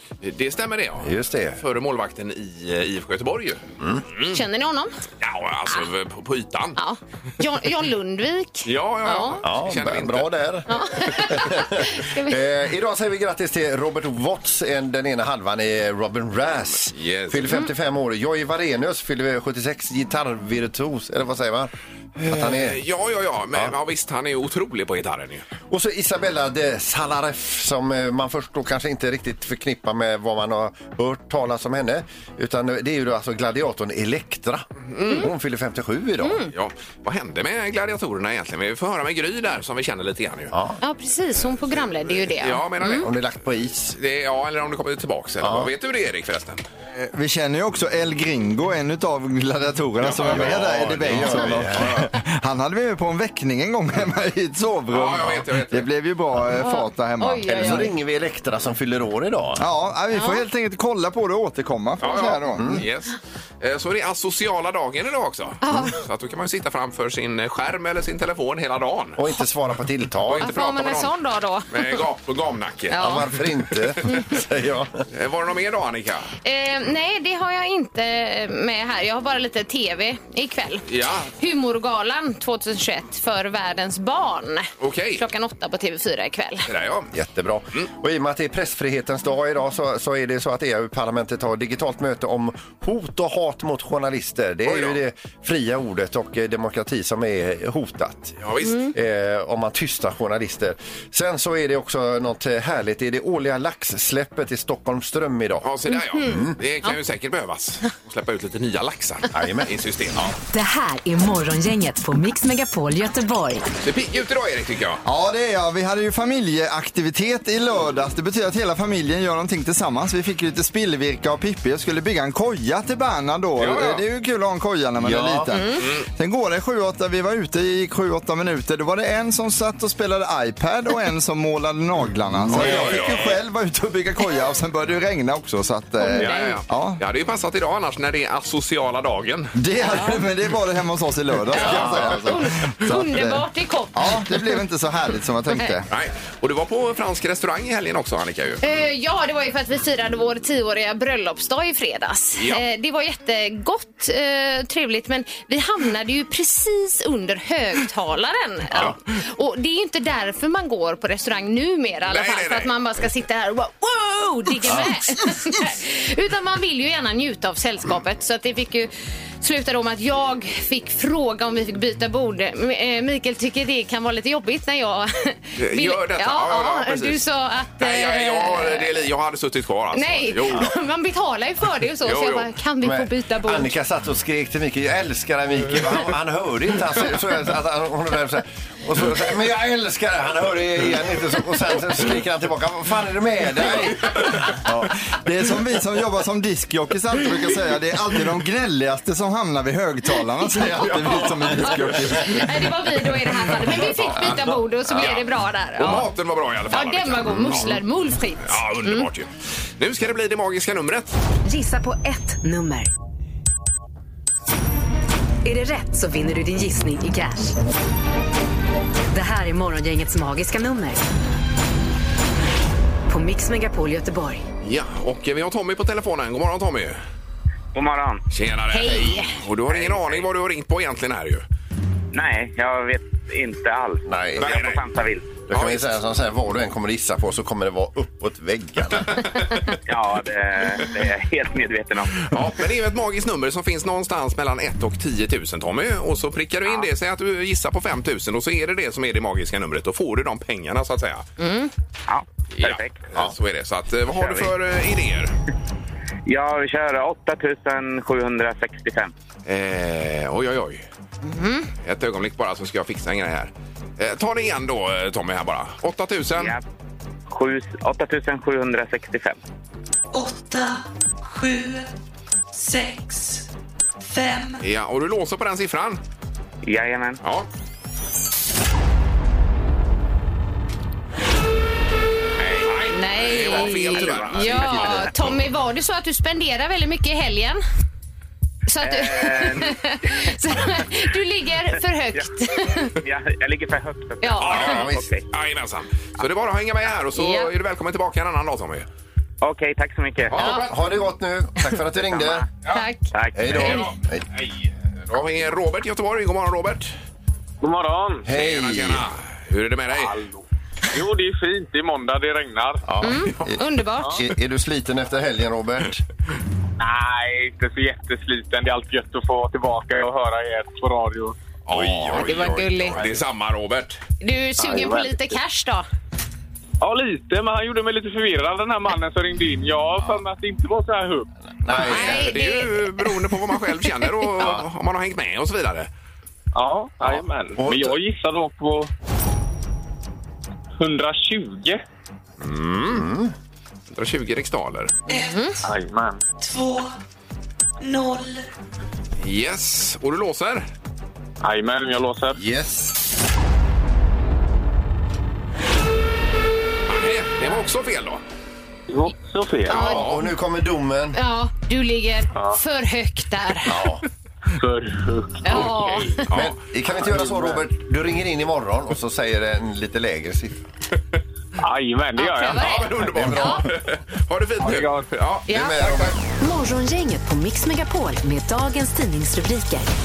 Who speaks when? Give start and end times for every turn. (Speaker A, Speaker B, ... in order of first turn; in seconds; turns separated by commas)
Speaker A: 0.2-4.4, Speaker B: 1.0-1.6, Speaker B: 3.8-4.0, Speaker C: 4.3-4.9, Speaker A: 5.2-6.8, Speaker C: 6.8-9.4, Speaker A: 8.7-10.3, Speaker B: 9.4-22.8, Speaker C: 10.7-12.4, Speaker A: 16.9-17.6, Speaker A: 22.2-25.5, Speaker B: 25.7-36.4, Speaker A: 34.9-35.3, Speaker C: 36.2-36.5, Speaker A: 36.5-40.5, Speaker B: 40.5-40.8, Speaker C: 40.8-43.1, Speaker A: 42.1-43.2, Speaker B: 42.9-44.0, Speaker A: 43.9-46.6, Speaker B: 45.4-45.7, Speaker D: 47.0-57.9, Speaker A: 50.0-50.6, Speaker B: 50.2-52.1, Speaker A: 54.9-55.9, Speaker C: 56.6-57.9, Speaker B: 57.5-59.7, Speaker D: 59.6-62.8, Speaker C: 60.1-60.4, Speaker A: 62.0-69.2, Speaker B: 62.6-62.8, Speaker C: 65.6-66.0, Speaker B: 69.2-70.5, Speaker A: 70.2-71.1, Speaker C: 70.4-72.0, Speaker A: 71.7-74.2, Speaker C: 72.9-73.2, Speaker B: 73.0-75.0, Speaker A: 75.1-76.3, Speaker C: 76.4-86.7, Speaker A: 80.9-81.3, Speaker A: 84.8-85.2, Speaker A: 86.7-87.1, Speaker B: 87.1-106.6, Speaker A: 94.7-95.0, Speaker A: 98.4-98.9, Speaker A: 105.6-110.2, Speaker B: 109.3-110.3, Speaker E: 110.5-113.7, Speaker A: 113.8-115.0, Speaker D: 115.0-137.0, Speaker A: 123.6-124.0, Speaker B: 125.0-125.5, Speaker C: 125.5-125.8, Speaker B: 132.3-133.2, Speaker A: 132.5-133.4, Speaker C: 136.0-136.6, Speaker A: 136.2-139.5, Speaker D: 139.6-145.9, Speaker C: 139.8-140.2, Speaker B: 141.6-142.1, Speaker A: 141.6-142.0, Speaker C: 141.9-144.4, Speaker A: 145.9-148.6, Speaker C: 148.6-178.9, Speaker A: 152.4-152.6, Speaker A: 162.1-162.7, Speaker A: 175.6-177.2, Speaker A: 177.8-180.7, Speaker C: 179.9-183.7, Speaker A: 182.0-182.5, Speaker B: 182.8-194.4, Speaker D: 194.5-202.7, Speaker A: 200.8-201.9, Speaker C: 201.6-206.1, Speaker A: 204.9-207.8, Speaker C: 206.7-209.1, Speaker B: 207.2-207.7, Speaker A: 208.4-211.1, Speaker E: 211.4-212.9, Speaker E: 215.4-217.6, Speaker E: 219.1-221.0, Speaker E: 223.1-224.4, Speaker A: 224.6-227.0, Speaker F: 227.7-228.2, Speaker A: 228.3-231.4, Speaker C: 228.7-229.4, Speaker F: 229.7-230.3, Speaker F: 232.1-235.3, Speaker B: 234.1-234.5, Speaker A: 234.4-234.8, Speaker A: 235.5-236.0, Speaker B: 235.5-239.2, Speaker A: 239.2-239.6, Speaker F: 239.9-242.2, Speaker A: 242.2-251.3, Speaker C: 251.4-251.7, Speaker F: 252.1-253.0, Speaker A: 252.5-255.3, Speaker F: 254.2-254.5, Speaker F: 256.2-259.1, Speaker A: 259.5-260.9, Speaker C: 261.2-261.7, Speaker A: 261.8-266.6, Speaker F: 266.3-266.6, Speaker F: 267.3-269.4, Speaker G: 270.1-271.9, Speaker G: 272.5-273.4, Speaker G: 274.0-274.6, Speaker A: 274.6-276.0, Speaker F: 276.6-277.2, Speaker A: 277.2-277.5, Speaker A: 282.6-285.3, Speaker C: 282.9-287.6, Speaker F: 284.0-284.2, Speaker C: 288.7-293.0, Speaker F: 288.8-290.3, Speaker F: 292.9-295.2, Speaker C: 294.2-294.8, Speaker A: 294.4-298.9, Speaker B: 294.4-295.1, Speaker C: 297.1-297.5, Speaker F: 299.4-300.4, Speaker A: 300.3-300.7, Speaker B: 300.3-302.5, Speaker F: 302.1-302.5, Speaker C: 302.7-303.9, Speaker F: 303.1-303.5, Speaker B: 303.4-304.2, Speaker A: 303.5-306.9, Speaker H: 307.6-308.2, Speaker B: 308.2-309.1, Speaker A: 308.3-310.2, Speaker H: 309.9-310.4, Speaker H: 310.9-312.8, Speaker B: 312.9-316.0, Speaker C: 313.0-314.2, Speaker H: 316.8-321.4, Speaker A: 321.7-324.0, Speaker B: 321.7-323.0, Speaker C: 322.1-323.0, Speaker C: 324.2-325.9, Speaker H: 324.6-325.4, Speaker H: 326.8-331.3, Speaker B: 331.6-332.3, Speaker A: 331.7-335.9, Speaker C: 331.8-333.4, Speaker H: 336.6-338.9, Speaker B: 337.6-337.9, Speaker H: 340.8-341.8, Speaker A: 342.4-343.1, Speaker B: 342.9-343.3, Speaker A: 343.9-345.0, Speaker G: 345.1-345.5, Speaker C: 345.1-345.6, Speaker H: 345.6-346.2, Speaker G: 346.4-347.0, Speaker G: 347.8-348.5, Speaker A: 349.2-350.6, Speaker H: 351.4-352.3, Speaker B: 352.3-353.0, Speaker A: 356.9-358.2, Speaker H: 358.9-359.8, Speaker C: 359.7-360.1, Speaker A: 359.7-360.2, Speaker B: 359.7-361.2, Speaker C: 361.1-363.8, Speaker B: 363.6-364.0, Speaker H: 364.6-365.9, Speaker C: 365.4-366.2, Speaker A: 365.5-366.6, Speaker B: 366.3-370.6, Speaker H: 367.1-367.5, Speaker H: 371.6-372.7, Speaker C: 372.2-373.6, Speaker A: 372.5-376.1, Speaker B: 373.1-373.7, Speaker H: 374.6-375.0, Speaker C: 375.5-375.8, Speaker B: 375.5-376.2, Speaker E: 376.4-379.9